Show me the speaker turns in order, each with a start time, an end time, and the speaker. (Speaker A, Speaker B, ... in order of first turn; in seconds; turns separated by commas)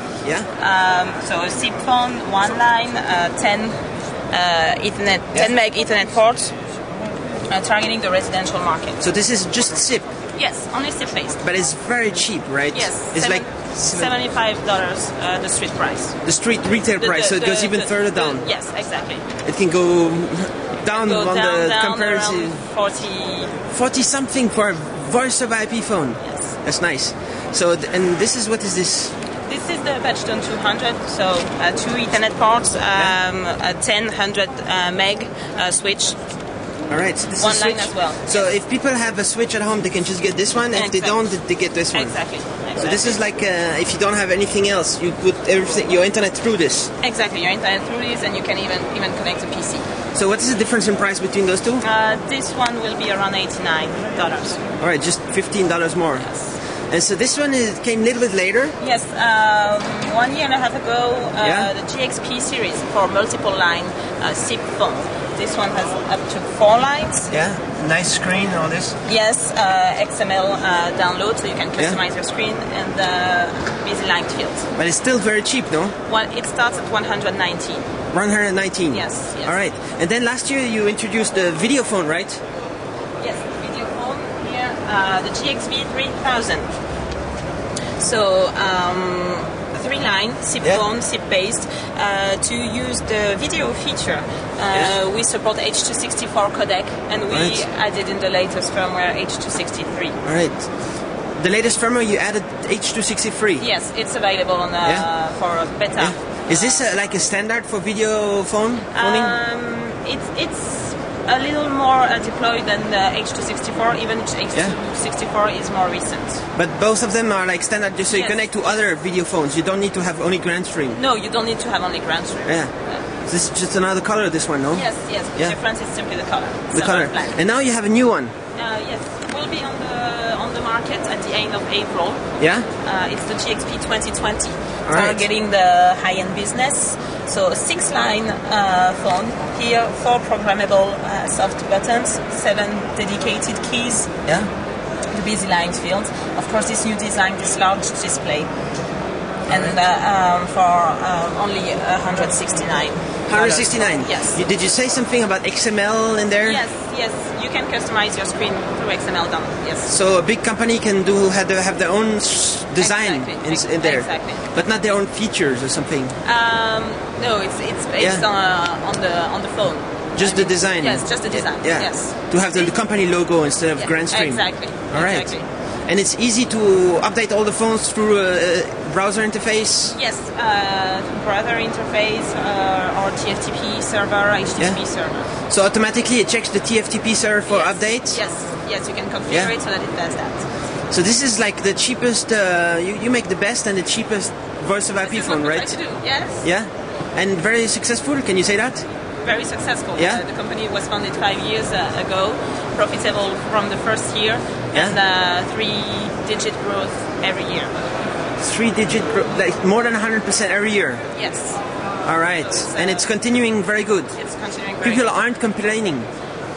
Speaker A: 0.2-0.5, Speaker B: 0.6-3.8, Speaker B: 4.3-6.5, Speaker B: 7.5-9.0, Speaker A: 9.0-10.1, Speaker B: 10.3-11.4, Speaker A: 11.4-14.1, Speaker B: 12.7-16.2, Speaker A: 16.2-18.5, Speaker B: 17.0-19.3, Speaker A: 19.4-22.6, Speaker B: 20.9-23.6, Speaker A: 23.7-29.1, Speaker B: 26.2-26.5, Speaker B: 29.4-36.2, Speaker A: 36.9-46.9, Speaker B: 37.4-38.5, Speaker B: 40.7-41.3, Speaker B: 41.9-43.2, Speaker B: 47.0-49.9, Speaker A: 50.1-51.8, Speaker B: 51.8-54.6, Speaker A: 54.8-56.3, Speaker A: 56.9-58.8, Speaker B: 58.8-67.3, Speaker A: 61.4-61.7, Speaker A: 67.3-69.0, Speaker B: 69.0-74.7, Speaker A: 74.8-75.9, Speaker B: 76.1-77.9, Speaker A: 78.1-82.4, Speaker B: 78.9-79.6, Speaker B: 83.2-86.7, Speaker B: 88.0-100.2, Speaker A: 97.3-97.6, Speaker A: 100.2-103.7, Speaker B: 103.6-106.8, Speaker A: 106.0-109.3, Speaker B: 108.9-116.4, Speaker A: 116.5-121.0, Speaker B: 118.1-118.6, Speaker B: 120.9-123.0, Speaker A: 122.4-125.5, Speaker B: 124.7-127.4, Speaker A: 126.7-128.3, Speaker B: 128.5-132.2, Speaker A: 132.4-132.7, Speaker B: 132.8-144.1, Speaker A: 134.8-135.2, Speaker A: 144.2-144.5, Speaker B: 145.1-148.5, Speaker B: 149.5-154.4, Speaker A: 149.5-149.7, Speaker A: 153.3-156.6, Speaker B: 156.4-159.9, Speaker A: 159.8-166.1, Speaker B: 162.8-164.4, Speaker B: 166.2-172.8, Speaker A: 168.0-168.2, Speaker A: 170.1-179.9, Speaker B: 173.8-175.4, Speaker B: 179.9-185.3, Speaker A: 184.6-188.2, Speaker B: 187.5-190.5, Speaker A: 190.9-195.8, Speaker B: 195.0-196.4, Speaker A: 196.4-198.8, Speaker B: 199.2-207.7, Speaker A: 200.0-200.2, Speaker A: 208.4-211.0, Speaker B: 211.1-211.6, Speaker A: 212.0-214.1, Speaker B: 212.4-213.1, Speaker B: 214.2-215.1, Speaker A: 214.8-216.1